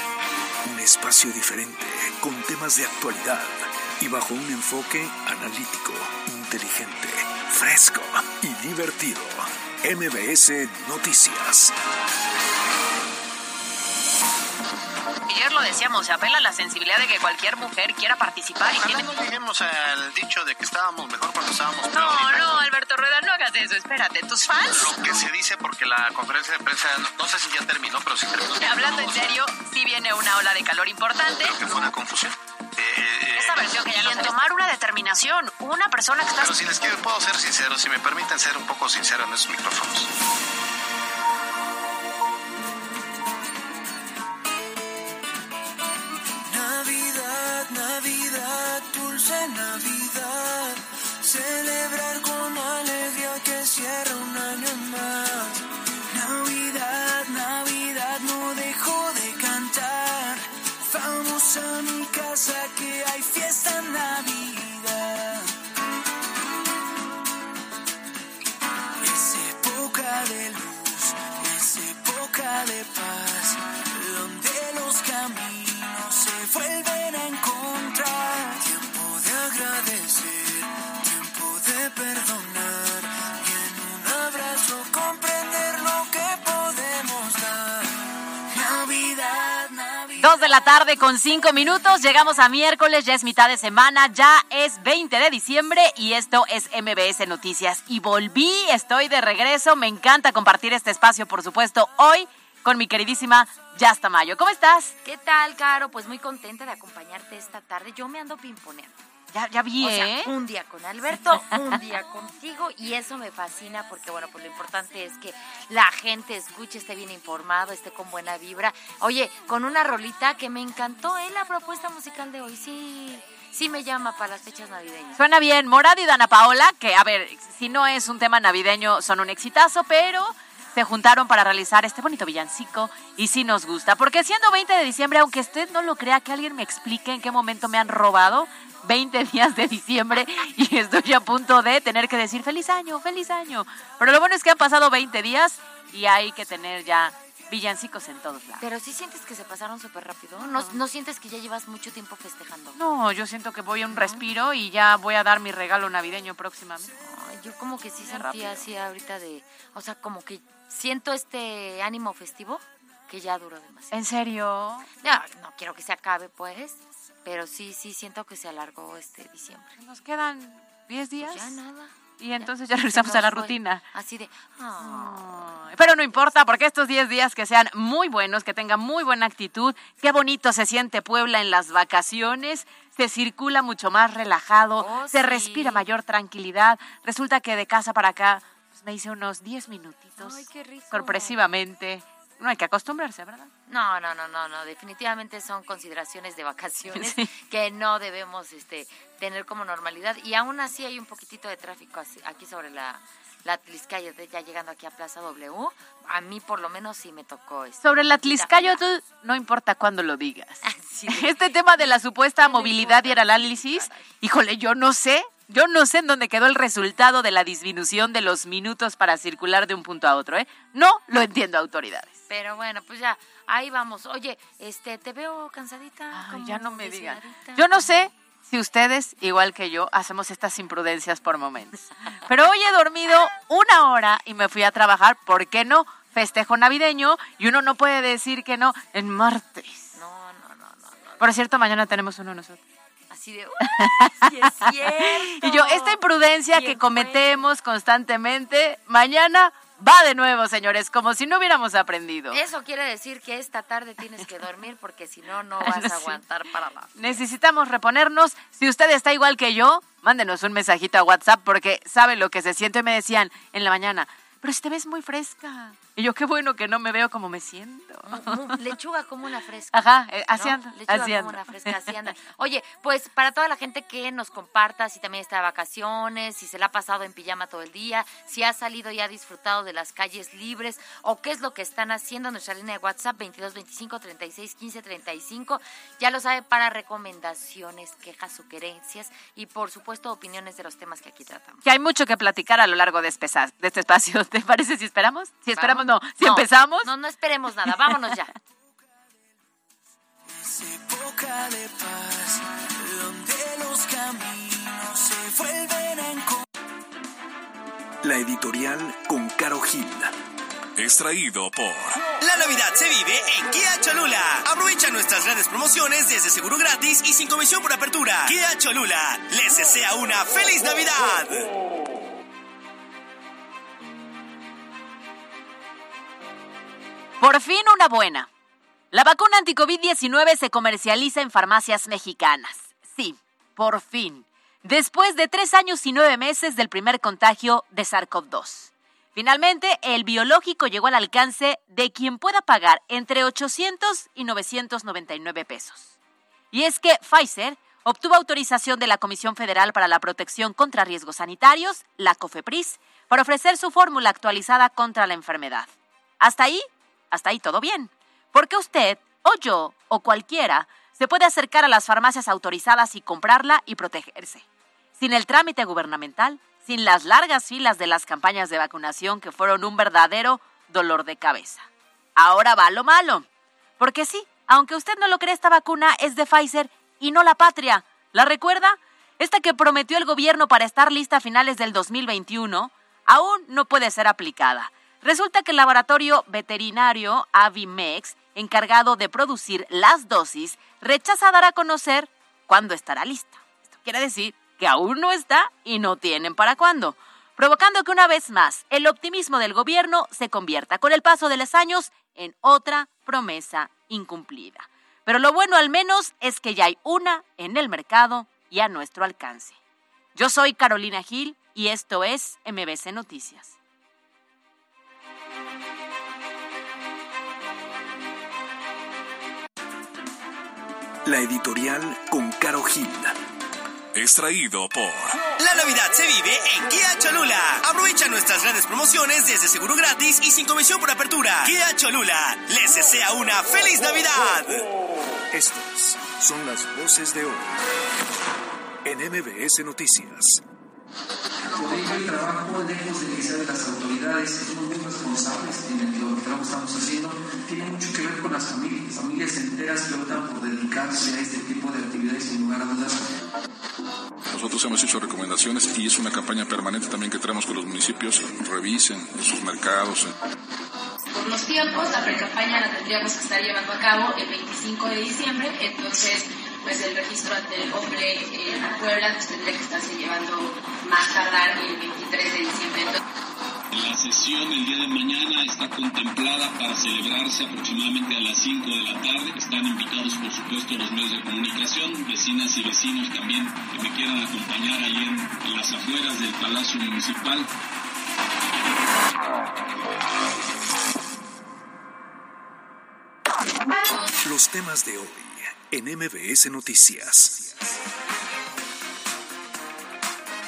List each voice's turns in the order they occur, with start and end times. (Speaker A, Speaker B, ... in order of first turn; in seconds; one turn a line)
Speaker A: 0.6-11.7
Speaker B: 15.3-19.2
Speaker C: 18.6-22.6
Speaker B: 21.9-25.2
Speaker C: 24.6-29.4
Speaker B: 28.6-31.7
Speaker C: 31.4-34.1
Speaker B: 33.4-36.6
Speaker C: 36.4-40.1
Speaker D: 46.5-65.5
Speaker D: 69.0-90.7
Speaker B: 90.2-104.9
Speaker E: 105.0-109.0
Speaker B: 109.3-110.3
Speaker E: 109.8-125.2
Speaker B: 125.2-148.6
Speaker E: 148.6-152.8
Speaker B: 152.8-156.9
Speaker E: 153.9-154.2
Speaker E: 156.9-164.1
Speaker B: 158.0-158.7
Speaker B: 163.9-164.9
Speaker E: 165.0-169.8
Speaker B: 169.8-171.6
Speaker E: 171.2-176.0
Speaker B: 172.2-173.8
Speaker B: 174.8-193.5
Speaker E: 184.8-185.8
Speaker E: 190.2-191.4
Speaker E: 193.7-208.8
Speaker B: 196.9-197.3
Speaker B: 207.8-222.2
Speaker E: 210.6-214.1
Speaker E: 222.3-228.1
Speaker B: 226.1-239.9
Speaker E: 239.9-241.5
Speaker B: 241.2-242.6
Speaker E: 243.1-246.0
Speaker B: 243.7-252.4
Speaker E: 246.5-247.4
Speaker E: 252.3-257.2
Speaker B: 255.6-256.2
Speaker B: 256.9-268.6
Speaker E: 268.0-291.6
Speaker B: 269.7-271.8
Speaker B: 291.6-296.9
Speaker E: 295.5-298.3
Speaker D: 300.4-306.4
Speaker A: 308.0-310.1
Speaker A: 310.8-311.9
Speaker F: 312.2-321.5
Speaker B: 327.2-328.3
Speaker B: 328.9-345.9
Speaker B: 346.5-364.4
Speaker B: 365.0-373.3
Speaker B: 373.8-409.6
Speaker B: 410.1-413.5
Speaker A: 421.0-423.1
Speaker A: 424.0-425.1
Speaker F: 425.4-434.7
Speaker A: 435.3-437.5
Speaker A: 438.8-440.4
Speaker G: 441.5-453.0
Speaker H: 454.3-460.1
Speaker I: 461.1-473.0
Speaker J: 473.7-487.5
Speaker A: 494.2-497.5